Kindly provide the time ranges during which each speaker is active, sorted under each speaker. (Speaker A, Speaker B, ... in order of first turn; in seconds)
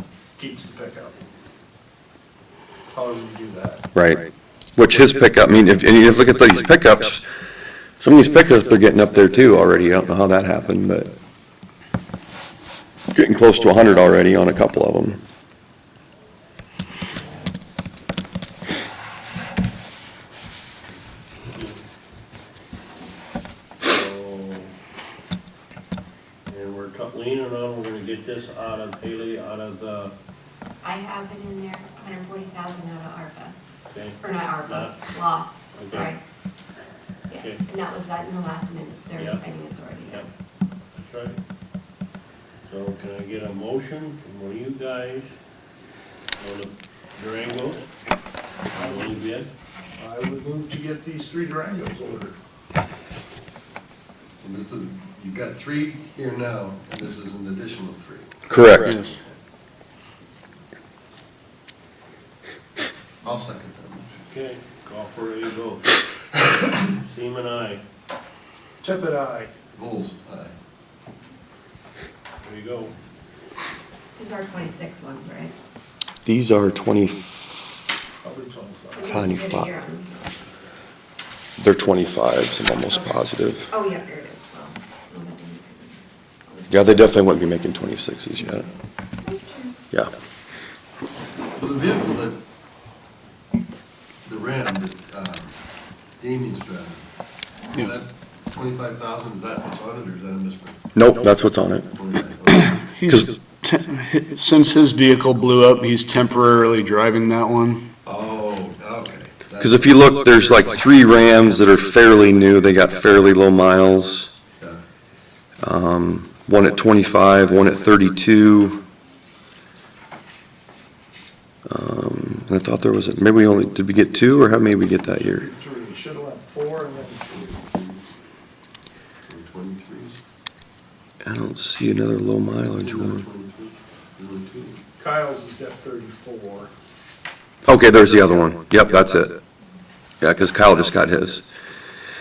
Speaker A: 0.4-1.2, 2.9-3.8, 48.7-49.2, 50.0-52.4, 68.8-69.5, 78.2-79.3, 125.1-127.3, 135.0-136.7
Speaker B: 3.9-4.2, 4.8-7.2, 8.0-11.1, 13.1-15.2, 58.5-59.0, 76.2-77.2, 79.0-79.7, 81.6-83.7, 86.7-88.7, 100.9-101.9, 109.6-114.3, 115.6-118.8, 121.7-125.5, 131.2-133.2, 137.7-139.4, 140.2-141.4
Speaker C: 21.5-21.8, 23.8-24.7, 26.5-30.1, 33.9-35.0, 35.7-36.2, 39.1-39.5, 41.0-41.4, 42.7-45.3, 46.4-47.9, 48.7-49.5, 64.3-66.0, 66.7-67.8, 72.4-72.9
Speaker D: 30.8-33.5, 34.2-36.2, 37.3-40.3, 74.2-75.5, 78.9-80.2, 82.9-83.2, 83.7-86.8, 89.2-89.8
Speaker E: 54.4-59.4, 63.2-64.2, 69.7-70.5, 91.5-92.4, 94.2-95.5, 96.2-97.0, 97.7-100.8, 101.9-102.8, 108.0-110.5, 127.3-128.0, 129.3-130.2, 132.8-134.8
Speaker F: 58.8-59.1, 102.5-107.8